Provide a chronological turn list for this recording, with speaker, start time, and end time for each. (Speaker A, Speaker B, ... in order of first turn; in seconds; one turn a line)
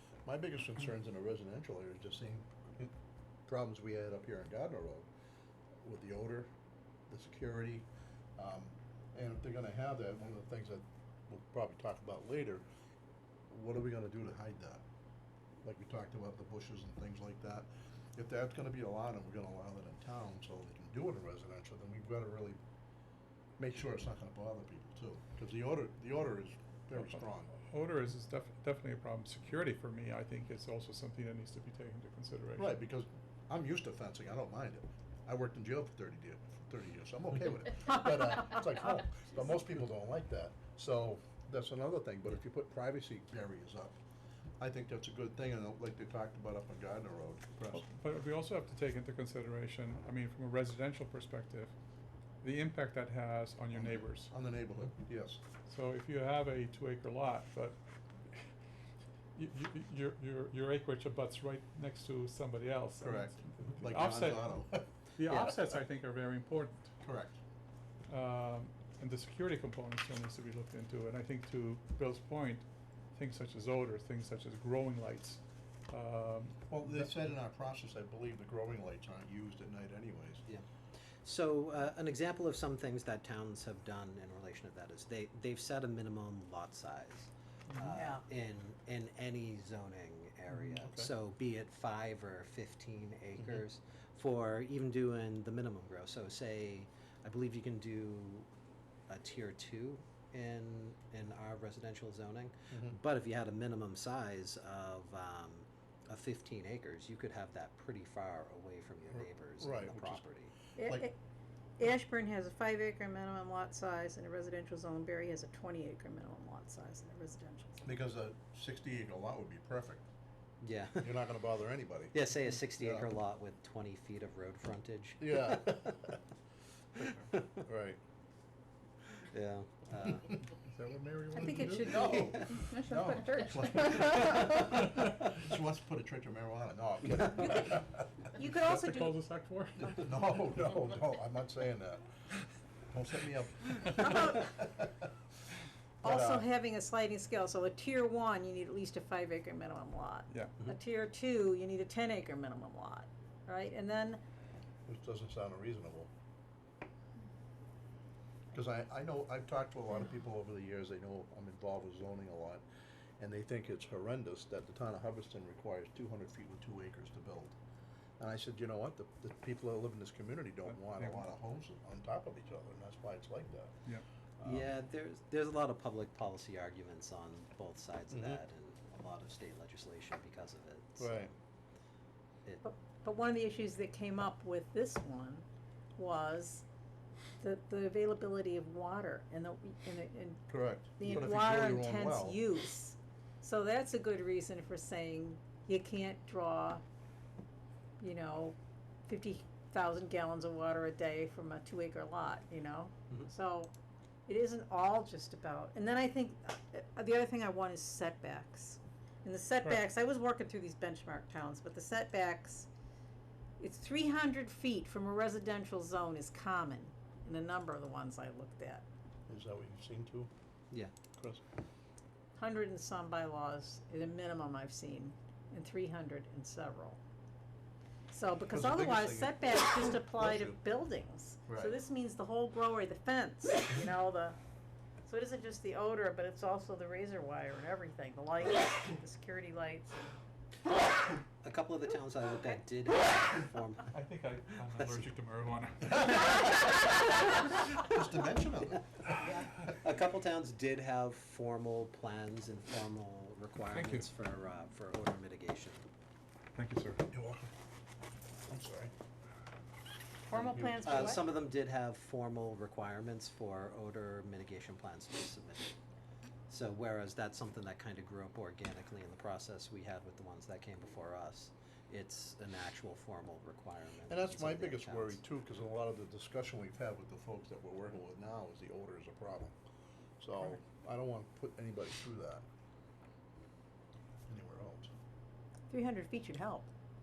Speaker A: 0.2-2.9
Speaker A: 3.5-5.1
Speaker A: 5.8-6.5
Speaker A: 7.1-12.6
Speaker A: 13.5-14.8
Speaker A: 15.6-22.6
Speaker A: 23.6-27.5
Speaker B: 27.7-32.7
Speaker A: 32.6-44.0
Speaker A: 44.6-47.9
Speaker B: 47.7-51.7
Speaker B: 52.4-54.3
Speaker A: 53.7-55.4
Speaker B: 55.7-57.8
Speaker B: 59.4-64.6
Speaker A: 63.0-64.9
Speaker B: 65.2-66.9
Speaker C: 65.3-65.6
Speaker A: 67.0-67.4
Speaker B: 68.1-76.6
Speaker A: 76.7-80.5
Speaker C: 81.2-98.5
Speaker D: 88.0-88.2
Speaker A: 90.8-91.1
Speaker C: 99.1-110.5
Speaker A: 102.7-103.0
Speaker A: 109.1-110.3
Speaker D: 110.8-111.2
Speaker D: 111.8-117.9
Speaker A: 117.8-120.0
Speaker C: 120.6-121.3
Speaker A: 121.0-123.1
Speaker C: 122.1-125.8
Speaker A: 125.2-126.2
Speaker C: 127.0-127.6
Speaker A: 127.6-128.0
Speaker C: 129.3-130.3
Speaker B: 130.6-132.1
Speaker D: 131.3-134.6
Speaker A: 131.3-138.0
Speaker D: 137.4-139.2
Speaker B: 138.6-140.2
Speaker A: 140.0-142.1
Speaker A: 142.9-145.1
Speaker D: 144.0-144.6
Speaker A: 146.0-146.4
Speaker D: 146.0-154.2
Speaker B: 150.3-150.6
Speaker A: 154.9-156.1
Speaker A: 158.5-162.6
Speaker A: 163.2-167.6
Speaker A: 168.2-173.7
Speaker B: 170.7-171.2
Speaker A: 174.4-174.7
Speaker C: 174.4-181.3
Speaker A: 178.1-178.4
Speaker A: 181.0-181.3
Speaker D: 182.6-185.4
Speaker D: 186.0-186.7
Speaker D: 187.4-196.8
Speaker A: 190.5-192.4
Speaker D: 198.0-203.7
Speaker D: 204.3-212.7
Speaker D: 213.6-218.9
Speaker A: 219.3-220.3
Speaker A: 221.2-221.4
Speaker D: 222.4-227.0
Speaker D: 228.1-234.4
Speaker A: 228.5-230.6
Speaker A: 231.5-231.7
Speaker D: 235.0-240.2
Speaker C: 241.4-243.9
Speaker B: 243.9-246.3
Speaker C: 244.8-245.0
Speaker A: 247.9-249.2
Speaker C: 249.0-255.9
Speaker B: 253.7-254.1
Speaker B: 256.6-257.1
Speaker A: 257.1-257.5
Speaker A: 258.5-258.9
Speaker D: 260.3-261.2
Speaker A: 260.3-261.2
Speaker C: 260.8-265.8
Speaker C: 266.5-275.2
Speaker A: 274.1-279.6
Speaker A: 280.2-282.4
Speaker A: 284.3-284.9
Speaker D: 285.7-286.7